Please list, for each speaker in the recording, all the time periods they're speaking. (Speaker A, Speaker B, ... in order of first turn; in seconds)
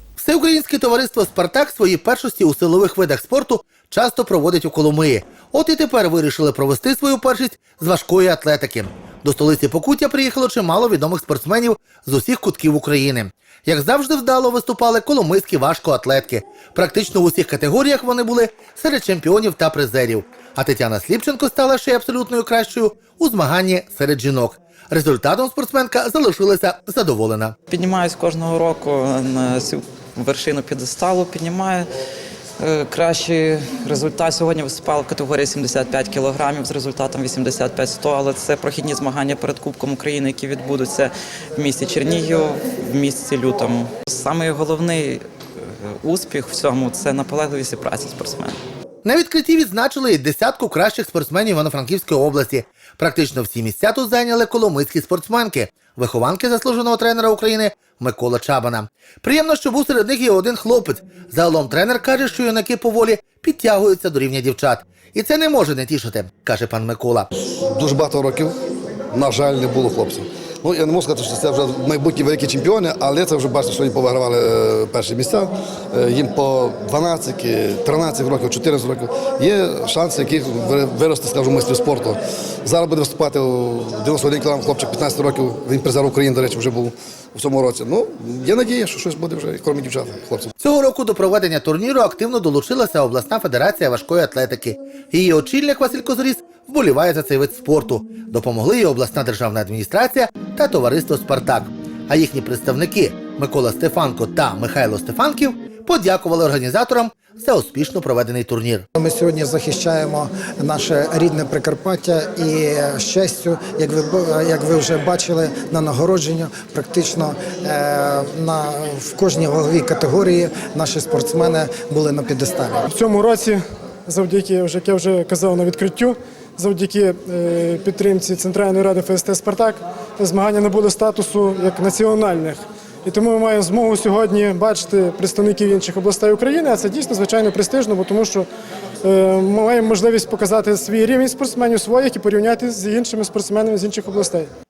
Speaker A: 0.2-27.5, 49.0-67.3, 90.6-108.8
Speaker B: 27.7-31.9, 32.6-45.2, 46.0-48.6
Speaker C: 67.6-68.5, 69.1-90.5
Speaker D: 108.9-122.8
Speaker E: 122.9-138.5, 139.0-144.5